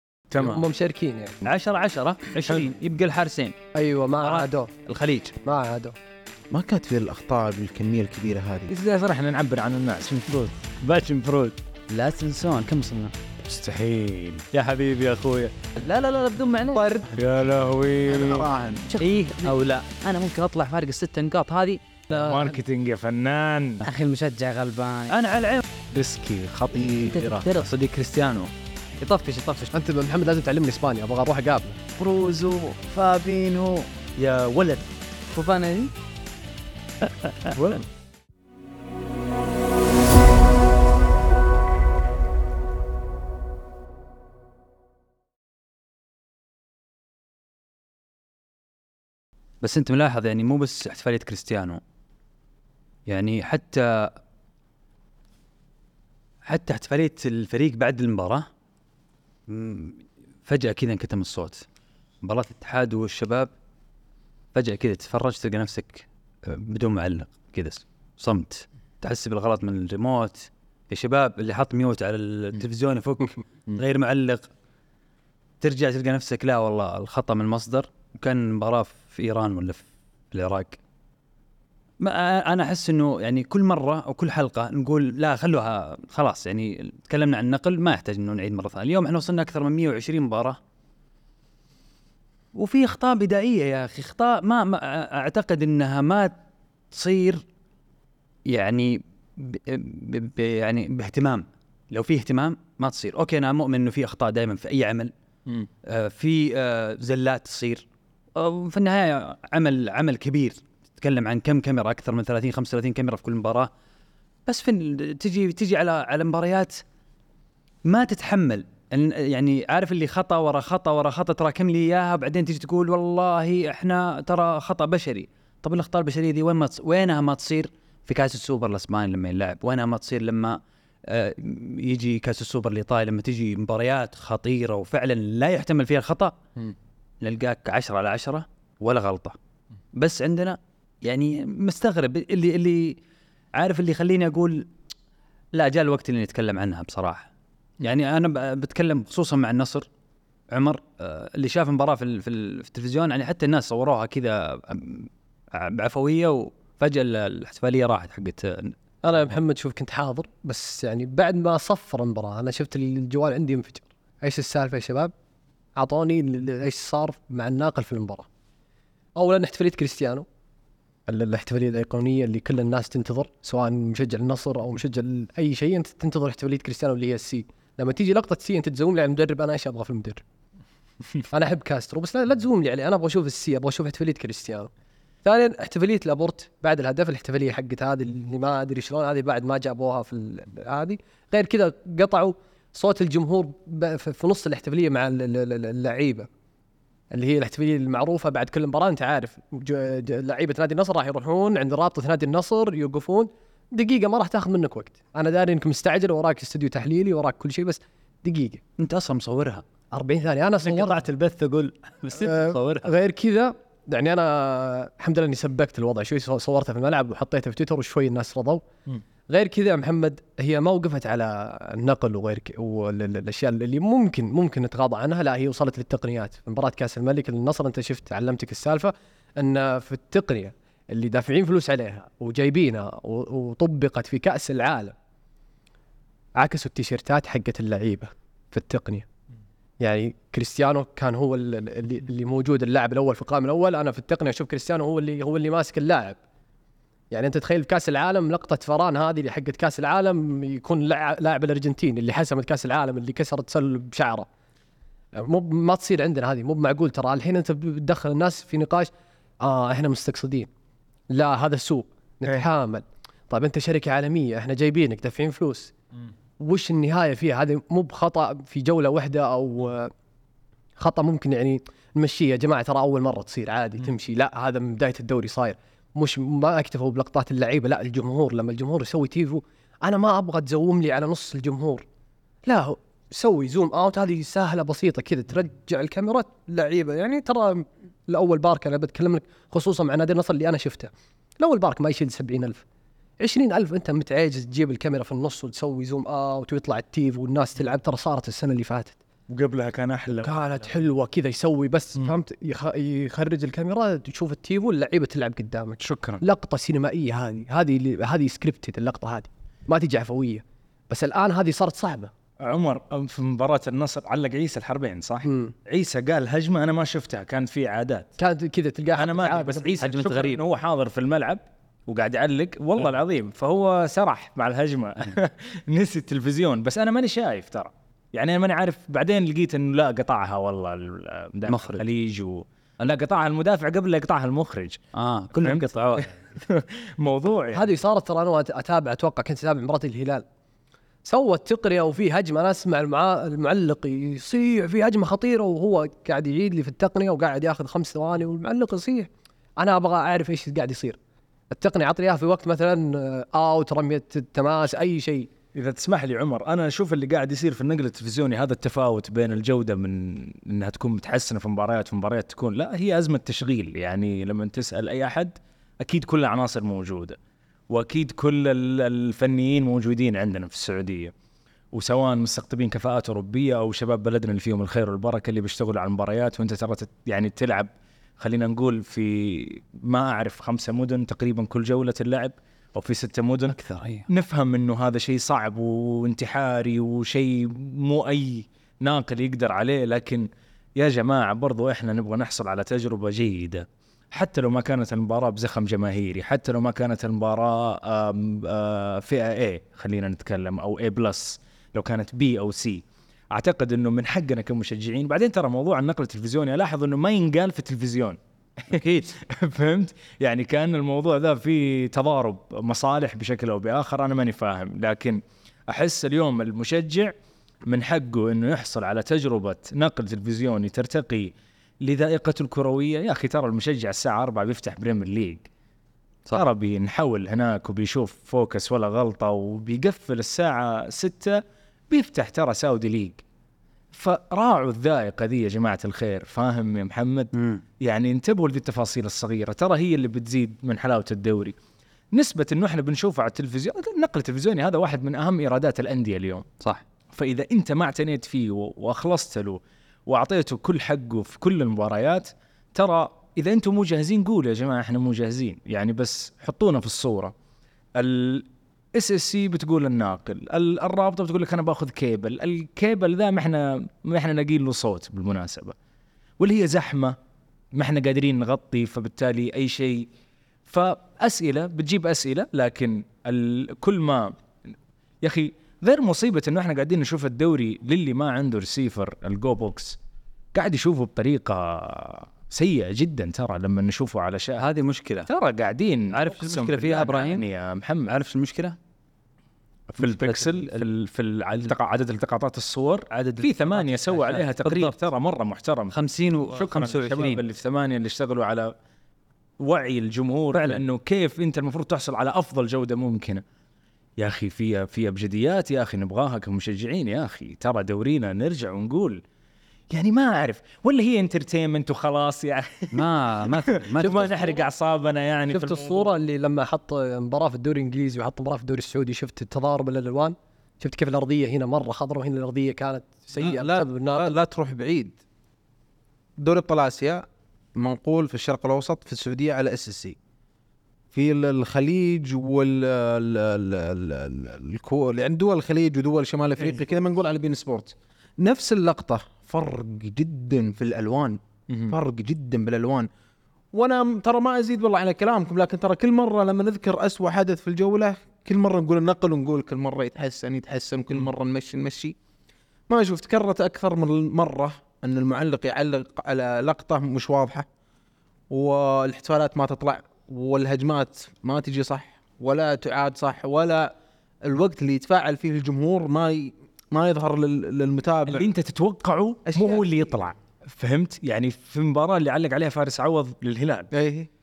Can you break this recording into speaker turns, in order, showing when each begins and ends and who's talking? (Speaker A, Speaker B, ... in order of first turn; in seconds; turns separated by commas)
Speaker A: 0.3-0.6, Speaker B: 0.3-1.4, Speaker C: 1.4-3.6, Speaker B: 3.7-4.7, Speaker C: 4.2-5.3, Speaker B: 5.4-5.9, Speaker D: 6.5-8.7, Speaker A: 8.7-11.6, Speaker E: 11.9-13.1, Speaker A: 13.4-14.5, Speaker C: 14.5-15.5, Speaker E: 15.8-17.0, Speaker D: 16.8-17.1, Speaker A: 17.1-18.5, Speaker D: 18.1-18.9, Speaker E: 18.9-21.8, Speaker C: 19.0-19.6, Speaker A: 22.1-23.8, Speaker E: 23.8-25.1, Speaker C: 25.1-25.6, Speaker A: 25.9-27.4, Speaker E: 27.1-27.7, Speaker C: 27.6-28.5, Speaker E: 29.0-29.7, Speaker B: 29.7-31.8, Speaker E: 32.0-33.9, Speaker C: 34.2-34.9, Speaker E: 35.3-35.9, Speaker A: 37.5-37.8, Speaker C: 49.6-51.8, Speaker C: 53.1-54.2, Speaker C: 56.4-58.5, Speaker C: 59.5-61.6, Speaker C: 62.2-63.5, Speaker C: 64.5-74.5, Speaker C: 75.6-80.8, Speaker C: 82.0-90.6, Speaker C: 92.5-96.4, Speaker C: 96.9-97.4, Speaker C: 98.5-105.1, Speaker C: 105.8-113.7, Speaker C: 114.5-116.8, Speaker C: 117.8-136.3, Speaker C: 137.2-139.3, Speaker C: 139.9-143.0, Speaker C: 143.5-144.7, Speaker C: 145.5-147.3, Speaker C: 147.8-149.9, Speaker C: 150.5-158.7, Speaker B: 159.0-165.1, Speaker B: 165.8-168.2, Speaker B: 169.2-170.2, Speaker B: 171.1-180.2, Speaker B: 181.3-184.7, Speaker B: 185.2-196.3, Speaker B: 197.1-208.6, Speaker C: 208.8-209.6, Speaker B: 209.9-211.0, Speaker C: 210.9-212.9, Speaker B: 212.2-218.6, Speaker B: 219.3-234.9, Speaker B: 236.3-239.1, Speaker B: 239.8-246.2, Speaker B: 247.1-254.3, Speaker B: 255.1-260.5, Speaker B: 261.1-265.7, Speaker B: 266.4-269.9, Speaker B: 270.8-281.8, Speaker B: 282.4-292.6, Speaker B: 293.2-299.0, Speaker A: 299.3-300.4, Speaker B: 300.2-312.1, Speaker A: 305.8-306.2, Speaker A: 312.4-318.1, Speaker B: 315.2-315.5, Speaker B: 318.2-319.7, Speaker A: 318.9-334.8, Speaker C: 319.8-320.4, Speaker C: 331.5-331.8, Speaker C: 334.9-336.1, Speaker A: 335.4-337.7, Speaker B: 337.5-340.2, Speaker B: 341.0-351.0, Speaker B: 351.5-355.3, Speaker A: 355.5-367.2, Speaker A: 367.7-371.1, Speaker A: 371.7-383.6, Speaker C: 383.5-384.1, Speaker A: 384.1-417.1, Speaker C: 408.7-409.1, Speaker A: 417.7-425.4, Speaker A: 426.3-433.2, Speaker A: 433.9-441.6, Speaker C: 437.3-437.6, Speaker A: 442.1-446.4, Speaker A: 447.1-457.3, Speaker A: 457.9-465.7, Speaker A: 466.4-467.1, Speaker A: 467.7-470.1, Speaker A: 470.7-474.3, Speaker A: 475.2-480.0, Speaker A: 480.5-484.7, Speaker C: 484.6-485.3, Speaker A: 485.2-488.1, Speaker C: 486.1-487.4, Speaker C: 488.1-488.8, Speaker A: 489.9-495.9, Speaker C: 490.0-490.9, Speaker C: 493.1-495.0, Speaker C: 495.9-497.4, Speaker A: 496.5-498.7, Speaker A: 499.6-503.4, Speaker A: 504.2-509.2, Speaker A: 509.9-516.1, Speaker C: 512.9-514.6, Speaker B: 515.5-524.3, Speaker D: 523.3-525.2, Speaker D: 526.4-527.2, Speaker D: 527.8-530.1, Speaker D: 531.1-543.1, Speaker A: 541.7-541.9, Speaker D: 543.7-552.1, Speaker D: 552.9-557.6, Speaker D: 558.5-563.9, Speaker D: 564.4-568.5, Speaker A: 568.3-573.9, Speaker D: 569.5-569.8, Speaker D: 573.9-574.3